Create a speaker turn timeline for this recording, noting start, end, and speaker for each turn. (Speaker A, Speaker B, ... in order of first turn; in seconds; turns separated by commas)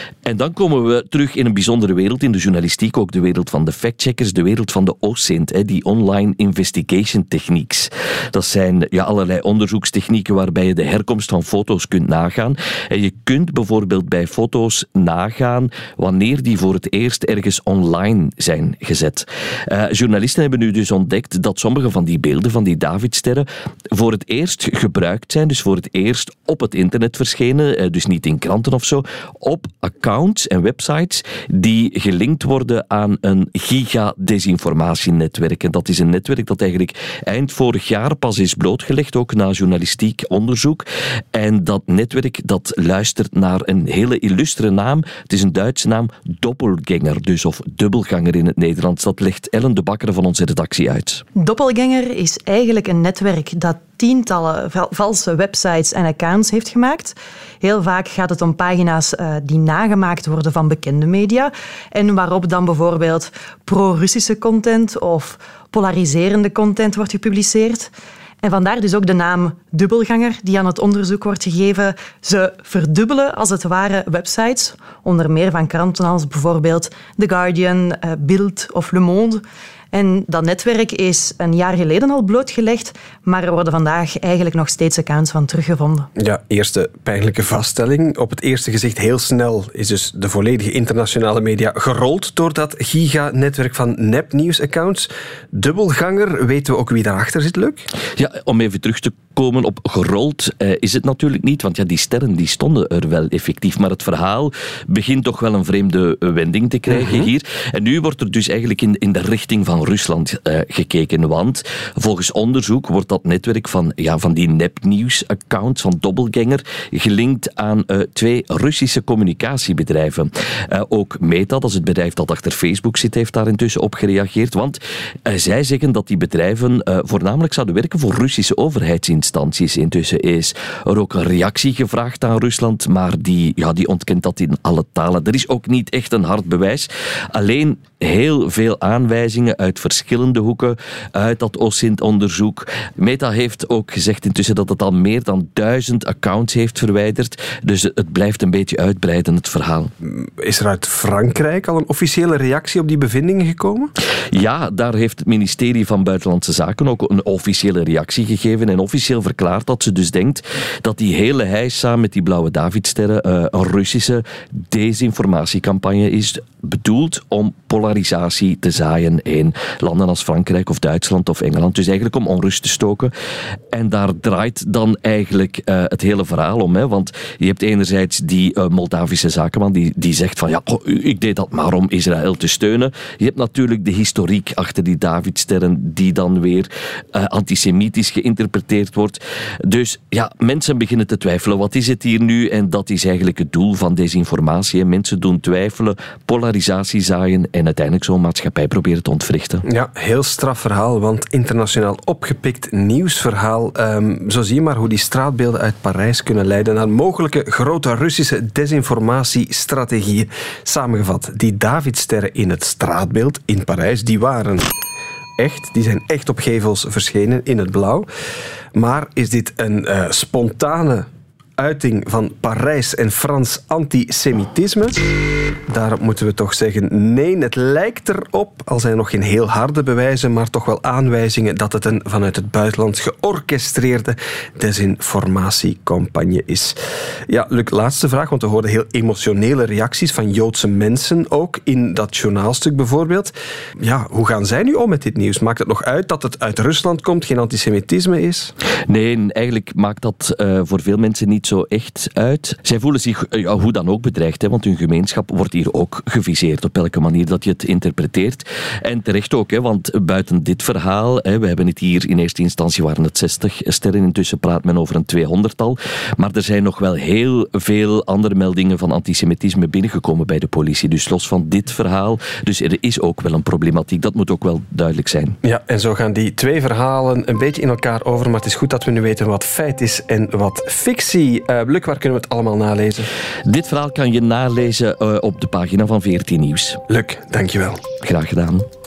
Speaker A: 0.2-51.2, Speaker B: 51.4-67.9, Speaker B: 68.4-86.1, Speaker C: 86.2-97.8, Speaker A: 98.2-149.9, Speaker C: 106.9-107.3, Speaker C: 150.0-153.9, Speaker A: 154.3-173.1, Speaker A: 173.7-199.6, Speaker C: 199.7-214.7, Speaker C: 215.4-218.1, Speaker C: 218.7-225.0, Speaker C: 225.7-236.8, Speaker C: 237.3-248.5, Speaker A: 248.9-275.4, Speaker C: 275.4-283.1, Speaker A: 283.5-286.8, Speaker C: 286.9-287.8, Speaker A: 288.0-288.6